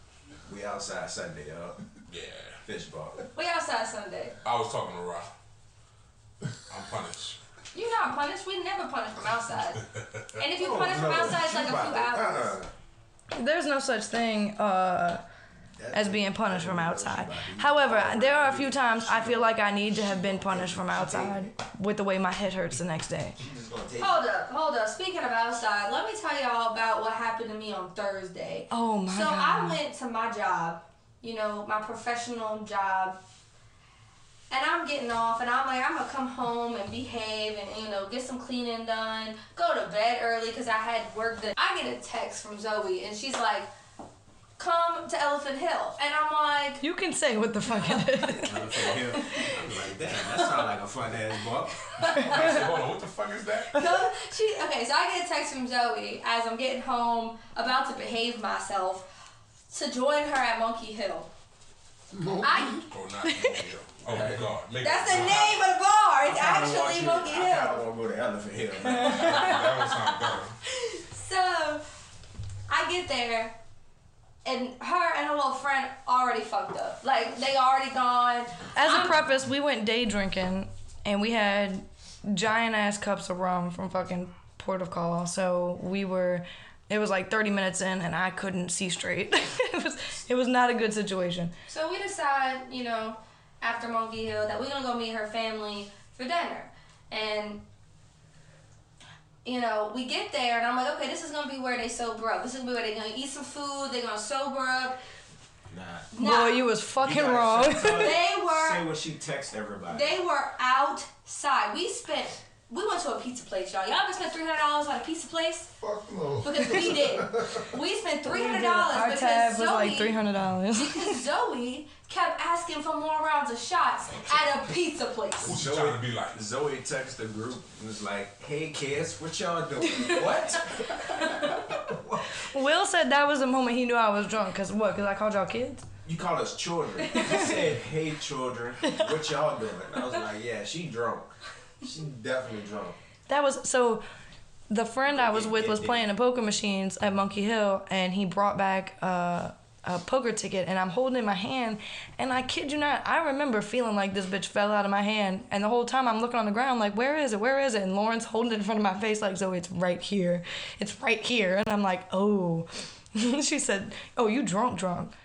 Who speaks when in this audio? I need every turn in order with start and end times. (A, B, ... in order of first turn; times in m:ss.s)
0:00.4-0:01.8 A
0:02.1-0:02.6 B
0:02.6-0:03.2 A
0:03.4-0:04.4 C
0:04.4-0:05.3 B
0:06.7-0:07.4 B
0:07.7-0:09.8 C
0:10.4-0:12.6 C
0:10.6-0:12.7 A
0:13.4-0:15.2 D
0:15.8-0:21.5 A
0:15.9-0:23.4 D
0:23.4-0:24.2 A
0:24.0-0:33.2 C
0:28.7-0:29.8 D
0:34.5-0:43.7 C
0:44.6-0:46.8 C
0:46.8-0:49.5 D
0:47.7-0:48.4 C
0:48.4-0:51.8 A
0:49.6-0:49.9 B
0:52.0-0:52.6 C
0:52.0-0:52.4 D
0:52.2-0:53.8 B
0:53.7-0:54.1 D
0:53.8-0:59.1 C
0:59.7-1:01.3 C
1:02.1-1:02.7 E
1:02.4-1:02.8 C
1:02.7-1:05.6 B
1:03.2-1:03.6 D
1:04.1-1:04.4 A
1:04.8-1:07.8 C
1:06.3-1:09.2 A
1:08.8-1:09.4 D
1:09.0-1:10.6 B
1:09.2-1:11.8 C
1:12.7-1:13.6 C
1:14.4-1:19.2 C
1:18.8-1:31.5 D
1:31.7-1:37.6 C
1:39.4-1:45.0 C
1:45.7-1:46.1 A
1:46.1-1:46.7 C
1:46.2-1:48.1 D
1:47.0-1:50.2 A
1:47.8-1:48.8 C
1:49.9-1:55.7 C
1:55.8-1:57.7 E
1:56.4-2:00.2 C
1:58.3-2:01.2 D
2:00.8-2:05.5 C
2:05.4-2:06.4 B
2:05.5-2:12.4 A
2:11.1-2:11.6 C
2:12.4-2:15.8 D
2:16.0-2:21.3 A
2:17.2-2:17.6 D
2:21.8-2:23.0 A
2:23.3-2:24.0 D
2:24.7-2:45.1 D
2:25.1-2:26.1 A